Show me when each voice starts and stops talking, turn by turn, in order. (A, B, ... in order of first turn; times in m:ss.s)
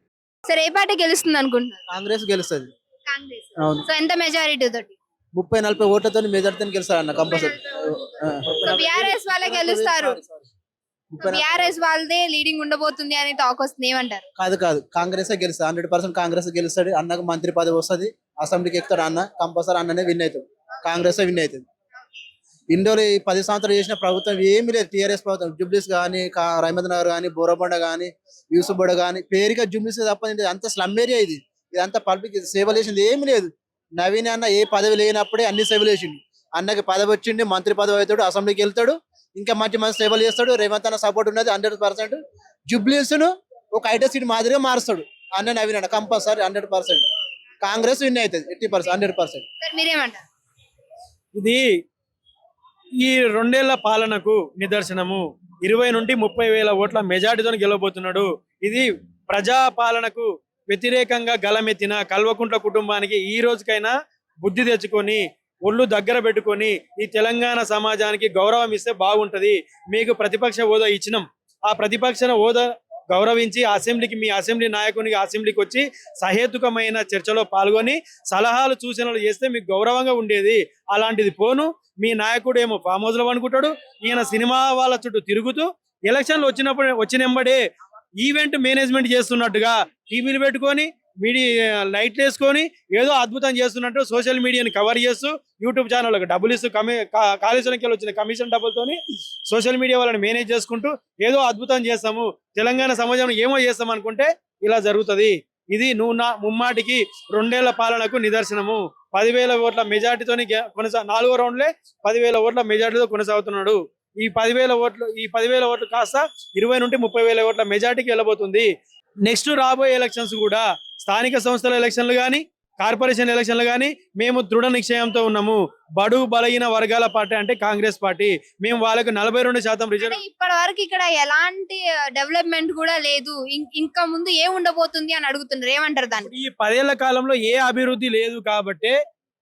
0:00.4-0:01.8 A
0:01.9-0:02.7 B
0:03.1-0:04.9 A
0:03.6-0:03.9 B
0:05.4-0:10.4 B
0:07.3-0:07.9 A
0:08.6-0:10.2 A
0:11.1-0:11.7 B
0:11.2-0:14.2 A
0:14.4-0:21.6 B
0:22.7-0:47.0 B
0:47.6-0:49.4 B
0:49.6-0:50.2 A
0:51.3-0:51.6 C
0:53.0-1:27.6 C
1:28.2-1:58.7 C
1:59.2-2:10.2 C
2:10.0-2:16.3 A
2:16.2-2:19.0 C